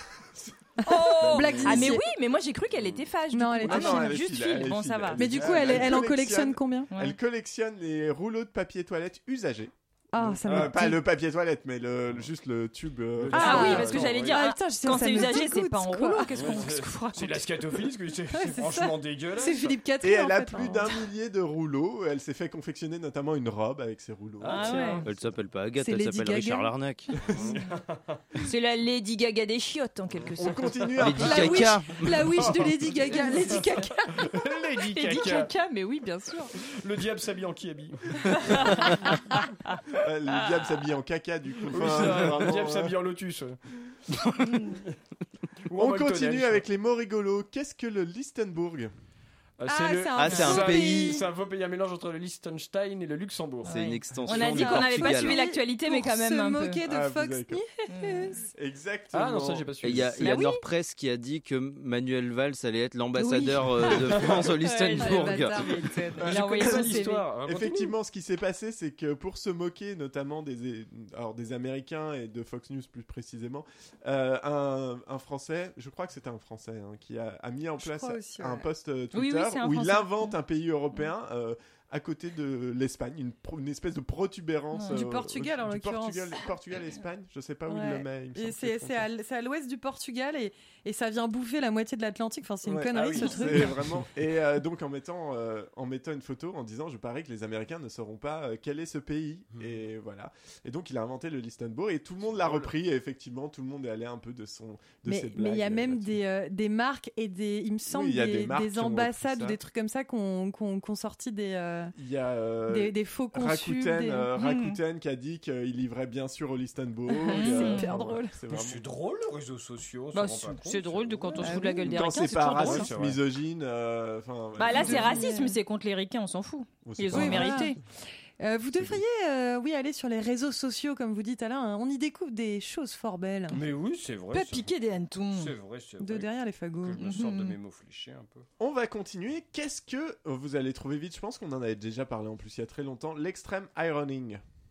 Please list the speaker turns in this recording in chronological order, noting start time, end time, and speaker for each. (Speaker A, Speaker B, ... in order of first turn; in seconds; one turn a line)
Speaker A: 0.1-0.5
Speaker B: 0.8-2.0
Speaker C: 0.8-5.3
Speaker A: 1.1-1.8
Speaker D: 1.4-1.8
Speaker B: 3.3-4.2
Speaker A: 3.6-14.1
Speaker B: 5.2-6.9
Speaker D: 5.3-5.9
Speaker C: 6.9-7.2
Speaker B: 10.1-11.0
Speaker D: 13.2-14.4
Speaker B: 13.3-16.3
Speaker C: 13.3-17.4
Speaker D: 16.3-19.8
Speaker B: 18.3-20.9
Speaker A: 20.0-24.9
Speaker D: 24.4-25.1
Speaker C: 24.5-25.0
Speaker E: 25.1-27.1
Speaker B: 25.8-26.7
Speaker D: 27.3-28.2
Speaker C: 28.4-30.7
Speaker A: 30.3-31.8
Speaker E: 31.0-32.5
Speaker B: 31.1-34.3
Speaker D: 33.2-33.6
Speaker D: 34.1-35.5
Speaker C: 34.9-36.5
Speaker D: 36.6-38.0
Speaker C: 38.4-38.9
Speaker D: 38.5-38.8
Speaker A: 40.0-42.9
Speaker D: 41.6-43.6
Speaker E: 44.1-44.8
Speaker D: 45.7-46.6
Speaker A: 45.7-48.9
Speaker D: 49.6-53.7
Speaker B: 49.6-51.2
Speaker E: 50.1-51.2
Speaker E: 53.6-55.4
Speaker C: 53.6-56.8
Speaker D: 54.3-54.6
Speaker B: 54.3-58.5
Speaker A: 56.8-57.6
Speaker C: 57.9-58.4
Speaker A: 58.5-60.0
Speaker D: 59.1-60.3
Speaker E: 59.8-65.9
Speaker C: 60.2-60.6
Speaker C: 63.1-67.2
Speaker D: 63.9-64.5
Speaker B: 64.9-67.2
Speaker D: 66.2-67.9
Speaker A: 67.4-89.0
Speaker B: 77.8-78.7
Speaker C: 79.1-80.3
Speaker C: 84.7-85.0
Speaker B: 84.9-86.4
Speaker B: 87.7-93.8
Speaker A: 92.6-106.2
Speaker D: 92.9-93.3
Speaker D: 102.3-102.7
Speaker B: 105.0-111.9
Speaker A: 107.9-109.6
Speaker A: 112.0-118.8
Speaker B: 112.7-114.3
Speaker C: 114.4-114.8
Speaker B: 117.2-118.3
Speaker C: 117.3-117.9
Speaker D: 118.5-121.6
Speaker C: 120.1-122.9
Speaker B: 121.4-121.9
Speaker A: 121.8-125.2
Speaker D: 122.3-123.2
Speaker C: 124.6-127.8
Speaker B: 124.8-125.5
Speaker A: 126.8-127.8
Speaker B: 127.1-127.7
Speaker B: 128.4-133.6
Speaker D: 133.5-134.7
Speaker C: 134.3-135.5
Speaker D: 135.3-138.4
Speaker B: 136.0-137.0
Speaker C: 137.0-137.6
Speaker A: 138.6-144.4